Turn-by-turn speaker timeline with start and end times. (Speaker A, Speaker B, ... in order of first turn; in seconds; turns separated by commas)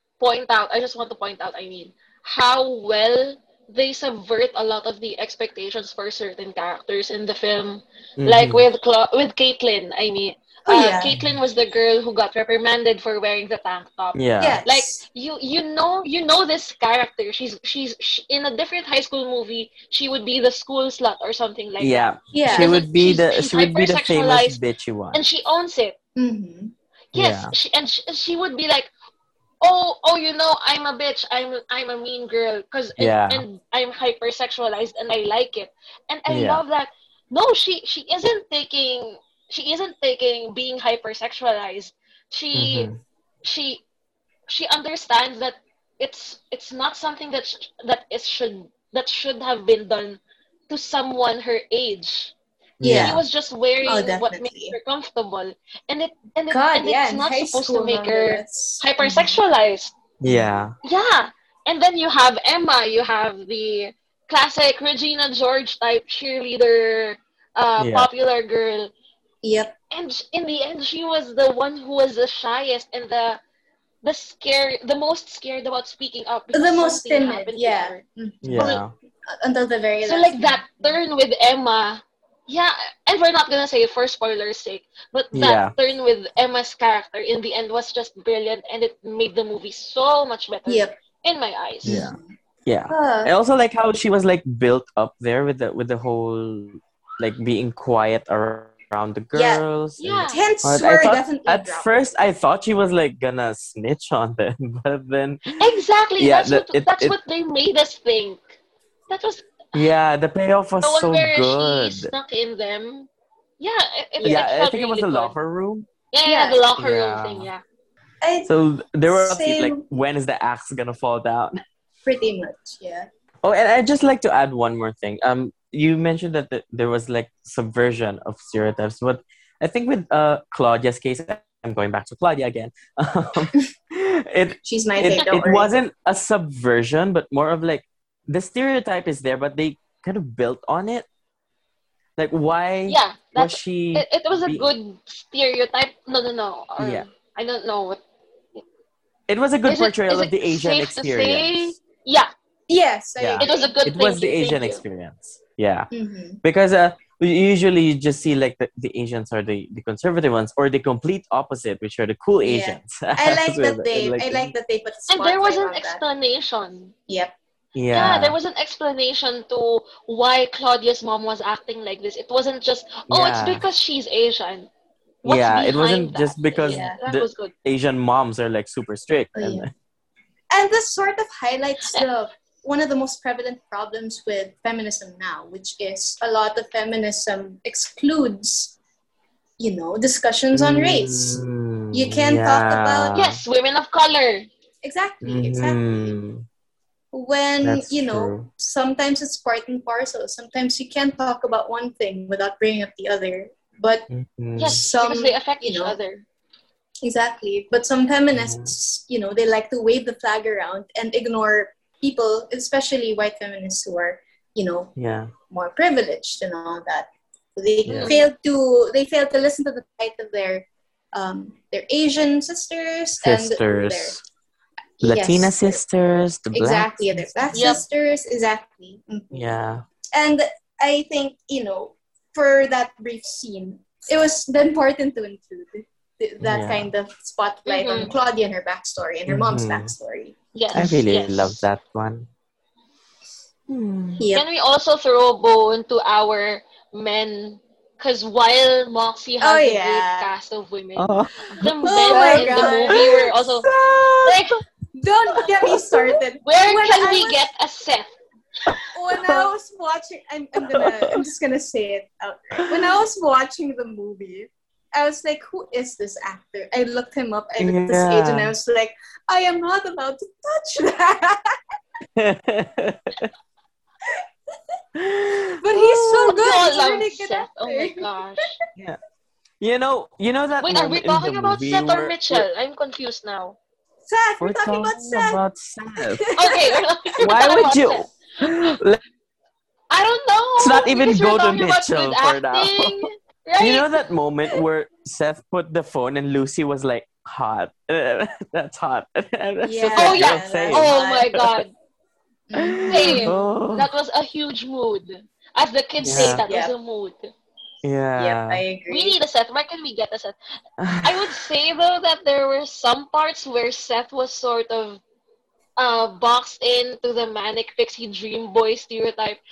Speaker A: 0.2-24.6, Speaker B: 8.2-8.7, Speaker C: 10.7-11.2, Speaker B: 14.2-14.6, Speaker C: 14.4-15.0, Speaker B: 21.8-25.2, Speaker C: 22.3-22.8, Speaker A: 25.1-25.9, Speaker C: 26.2-26.7, Speaker A: 27.1-28.9, Speaker B: 27.1-27.5, Speaker A: 29.6-42.9, Speaker B: 33.0-33.4, Speaker B: 36.3-36.6, Speaker B: 42.5-43.0, Speaker A: 43.4-43.8, Speaker A: 44.5-52.3, Speaker B: 52.8-53.2, Speaker C: 52.8-53.2, Speaker A: 52.9-60.0, Speaker C: 53.8-54.8, Speaker C: 56.5-59.4, Speaker B: 60.2-60.8, Speaker C: 60.2-60.5, Speaker A: 60.8-68.9, Speaker B: 67.8-68.1, Speaker C: 69.4-69.7, Speaker A: 69.9-73.4, Speaker A: 74.0-78.0, Speaker C: 76.5-81.0, Speaker B: 78.4-78.9, Speaker A: 78.6-78.8, Speaker A: 80.0-92.0, Speaker B: 85.3-85.7, Speaker C: 90.7-91.0, Speaker C: 91.8-92.3, Speaker B: 91.8-105.6, Speaker C: 92.9-93.3, Speaker C: 99.3-99.6, Speaker A: 100.0-100.4, Speaker C: 100.3-101.9, Speaker A: 105.6-108.4, Speaker B: 106.2-107.2, Speaker A: 109.1-109.7, Speaker B: 109.7-112.1, Speaker A: 110.8-113.1, Speaker A: 113.6-115.3, Speaker C: 114.2-114.4, Speaker B: 114.2-115.9, Speaker A: 116.1-117.6, Speaker C: 116.2-116.6, Speaker B: 116.8-117.5, Speaker C: 118.2-118.5, Speaker B: 118.5-121.6, Speaker C: 119.1-119.9, Speaker C: 122.1-123.1, Speaker B: 123.4-141.1, Speaker C: 134.7-135.7, Speaker B: 142.2-144.7, Speaker A: 142.9-148.0, Speaker B: 146.8-147.1, Speaker B: 149.3-151.8, Speaker A: 149.7-152.3, Speaker C: 152.7-153.7, Speaker B: 153.2-155.9, Speaker A: 153.4-154.8, Speaker C: 155.9-156.4, Speaker B: 156.4-164.5, Speaker C: 162.4-166.0, Speaker A: 165.1-166.9, Speaker C: 167.1-167.3, Speaker B: 167.8-168.4, Speaker A: 167.9-174.7, Speaker B: 173.1-173.6, Speaker A: 175.2-177.5, Speaker B: 175.2-179.7, Speaker C: 176.7-177.0, Speaker C: 179.3-179.7, Speaker C: 180.5-188.8, Speaker C: 189.6-193.2, Speaker B: 190.5-193.4, Speaker A: 193.2-194.5, Speaker C: 194.8-196.2, Speaker B: 195.2-196.5, Speaker C: 197.1-204.1, Speaker B: 197.6-198.5, Speaker B: 204.1-204.8, Speaker A: 204.6-206.2, Speaker C: 204.7-206.0, Speaker C: 207.0-214.9, Speaker B: 208.3-208.7, Speaker B: 215.0-215.3, Speaker C: 215.5-224.2, Speaker B: 217.8-218.2, Speaker A: 217.9-218.3, Speaker B: 223.2-224.2, Speaker C: 225.0-225.8, Speaker B: 225.0-227.7, Speaker C: 226.5-229.5, Speaker A: 227.5-227.8, Speaker B: 229.3-229.8, Speaker C: 230.1-240.9, Speaker B: 236.4-236.9, Speaker A: 237.7-238.1, Speaker B: 239.3-239.9, Speaker A: 240.6-241.6, Speaker B: 240.7-242.3, Speaker B: 243.7-244.2, Speaker C: 244.2-244.4, Speaker A: 244.3-253.7, Speaker C: 249.4-250.3, Speaker B: 251.0-254.4, Speaker C: 251.8-253.4, Speaker A: 254.2-254.6, Speaker C: 255.0-257.5, Speaker B: 255.6-256.0, Speaker A: 256.4-258.2, Speaker B: 258.7-259.5, Speaker C: 258.9-271.6, Speaker B: 260.6-261.2, Speaker B: 262.6-263.0, Speaker B: 267.6-268.5, Speaker B: 272.2-273.3, Speaker B: 275.0-276.3, Speaker C: 275.6-278.1, Speaker A: 276.1-278.6, Speaker B: 279.6-282.5, Speaker A: 280.6-283.6, Speaker C: 284.1-285.4, Speaker B: 284.4-286.2, Speaker C: 286.2-286.6, Speaker A: 286.4-288.1, Speaker B: 287.2-289.0, Speaker C: 287.4-287.7, Speaker A: 289.9-294.0, Speaker B: 290.6-293.1, Speaker B: 293.6-301.6, Speaker C: 299.6-301.4, Speaker A: 299.9-301.7, Speaker C: 302.5-303.3, Speaker B: 302.6-303.9, Speaker A: 302.9-307.3, Speaker B: 306.0-306.4, Speaker C: 306.1-306.7, Speaker B: 307.8-308.6, Speaker C: 308.2-309.2, Speaker A: 308.9-310.4, Speaker B: 310.8-311.4, Speaker A: 311.0-315.0, Speaker A: 315.8-319.4